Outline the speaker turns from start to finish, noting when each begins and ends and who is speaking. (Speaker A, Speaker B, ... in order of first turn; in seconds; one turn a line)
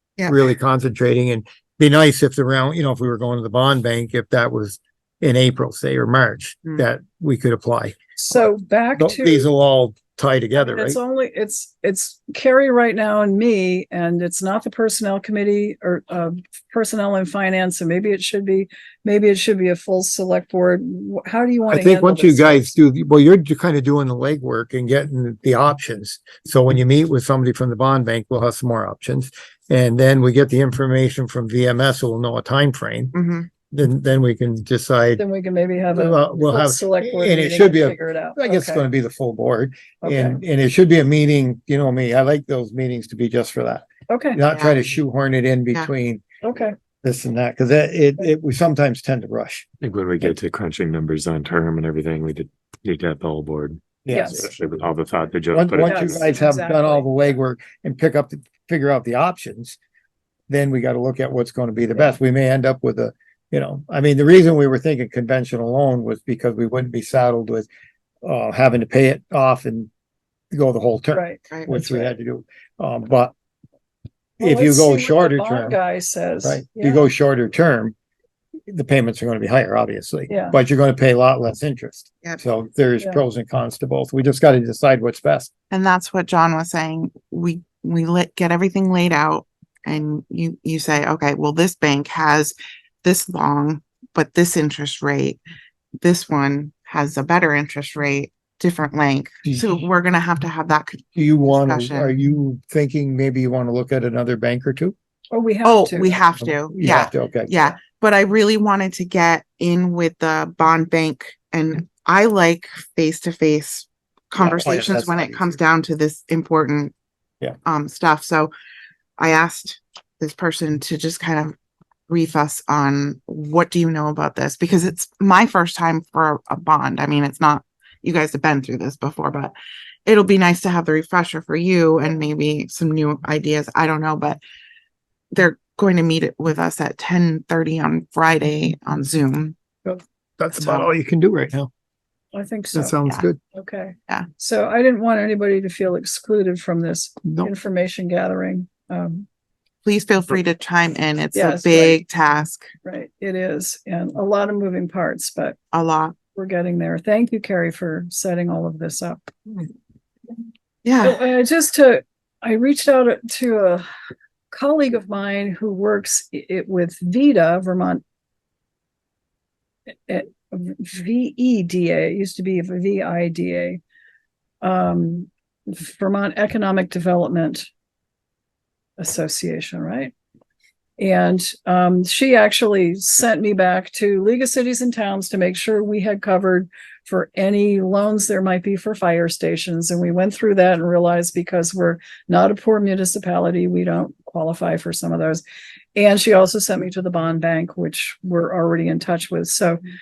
Speaker A: 0.3-11.0
Speaker B: 8.2-9.5
Speaker B: 10.6-22.8
Speaker A: 21.7-33.1
Speaker C: 33.1-33.5
Speaker A: 33.7-35.2
Speaker B: 35.2-38.9
Speaker A: 35.9-46.2
Speaker B: 40.0-40.4
Speaker B: 44.1-44.4
Speaker C: 44.5-44.8
Speaker B: 46.4-46.7
Speaker A: 47.0-49.6
Speaker D: 49.8-56.3
Speaker A: 54.0-54.4
Speaker B: 54.1-54.5
Speaker A: 55.5-59.8
Speaker B: 55.8-57.2
Speaker A: 60.5-67.7
Speaker A: 68.2-69.9
Speaker A: 70.5-73.3
Speaker B: 71.1-72.0
Speaker B: 74.4-77.1
Speaker A: 74.4-75.8
Speaker A: 76.4-77.9
Speaker A: 78.7-85.5
Speaker B: 80.3-80.6
Speaker C: 85.7-95.4
Speaker C: 96.0-102.1
Speaker A: 99.4-99.8
Speaker A: 101.1-104.9
Speaker B: 105.3-106.2
Speaker C: 105.6-116.9
Speaker A: 106.4-107.5
Speaker A: 114.4-115.6
Speaker C: 117.6-118.5
Speaker C: 119.2-121.5
Speaker C: 122.1-129.5
Speaker C: 130.1-134.4
Speaker C: 135.3-139.5
Speaker A: 139.8-141.7
Speaker C: 140.5-140.9
Speaker B: 142.3-143.0
Speaker A: 142.7-143.4
Speaker B: 143.5-149.2
Speaker A: 147.2-147.5
Speaker C: 149.8-152.7
Speaker B: 151.3-152.0
Speaker B: 152.8-155.6
Speaker C: 155.7-156.1
Speaker B: 156.3-159.3
Speaker C: 160.8-161.2
Speaker B: 161.0-163.8
Speaker B: 164.5-168.0
Speaker B: 170.1-173.8
Speaker B: 174.6-177.7
Speaker B: 179.0-180.1
Speaker B: 181.0-195.4
Speaker B: 195.9-199.8